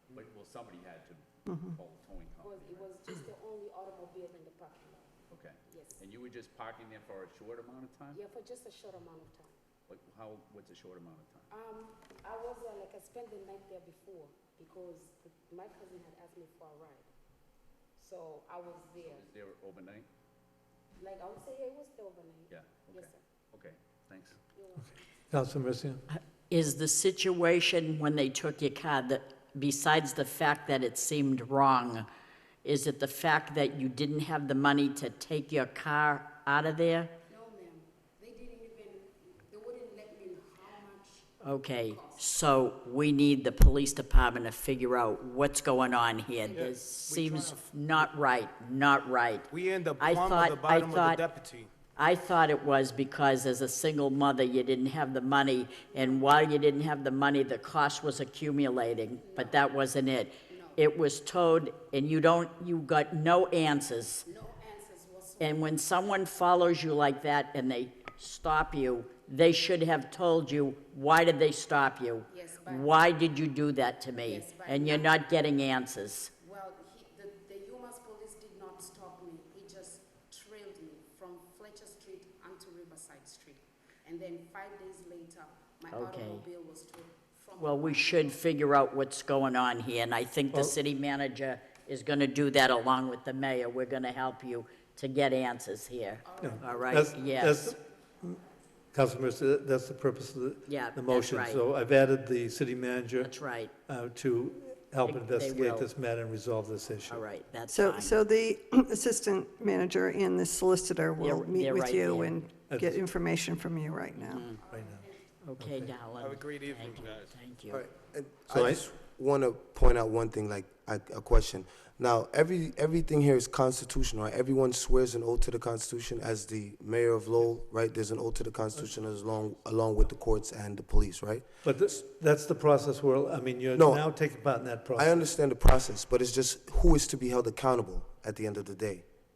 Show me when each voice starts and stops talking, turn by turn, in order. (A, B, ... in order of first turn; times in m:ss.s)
0:00.1-0:02.9 A
0:02.4-0:05.1 B
0:05.3-0:08.2 A
0:05.7-0:06.0 B
0:08.1-0:09.5 B
0:09.9-0:11.5 A
0:11.5-0:17.1 B
0:18.0-0:19.2 B
0:19.0-0:20.1 A
0:21.0-0:23.2 B
0:22.5-0:24.4 A
0:24.5-0:25.1 B
0:25.3-0:26.0 C
0:26.1-0:32.0 D
0:32.6-0:37.1 D
0:37.3-0:42.3 B
0:41.4-0:49.5 D
0:46.5-0:48.1 E
0:49.5-0:51.8 E
0:50.0-0:51.2 D
0:52.0-1:04.2 D
0:55.9-0:56.4 B
0:59.1-0:59.8 B
1:00.4-1:00.9 B
1:04.2-1:05.7 B
1:05.4-1:16.3 D
1:12.3-1:13.0 B
1:14.2-1:15.2 B
1:16.4-1:28.5 B
1:25.9-1:26.4 D
1:27.6-1:37.7 D
1:30.5-1:30.8 C
1:36.2-1:37.6 B
1:36.4-1:38.4 C
1:38.9-1:47.3 C
1:40.7-1:41.6 D
1:43.2-1:43.7 D
1:45.0-1:45.9 D
1:47.1-1:48.2 D
1:47.7-1:54.4 F
1:51.2-1:52.3 D
1:52.7-1:53.0 C
1:54.2-1:54.6 D
1:54.3-1:55.4 B
1:54.6-1:55.1 C
1:55.4-1:57.8 D
1:55.6-1:56.0 C
1:56.2-1:57.3 E
1:57.7-2:12.0 G
1:58.5-1:58.8 C
2:11.6-2:15.3 C
2:13.8-2:14.0 G
2:15.0-2:19.0 G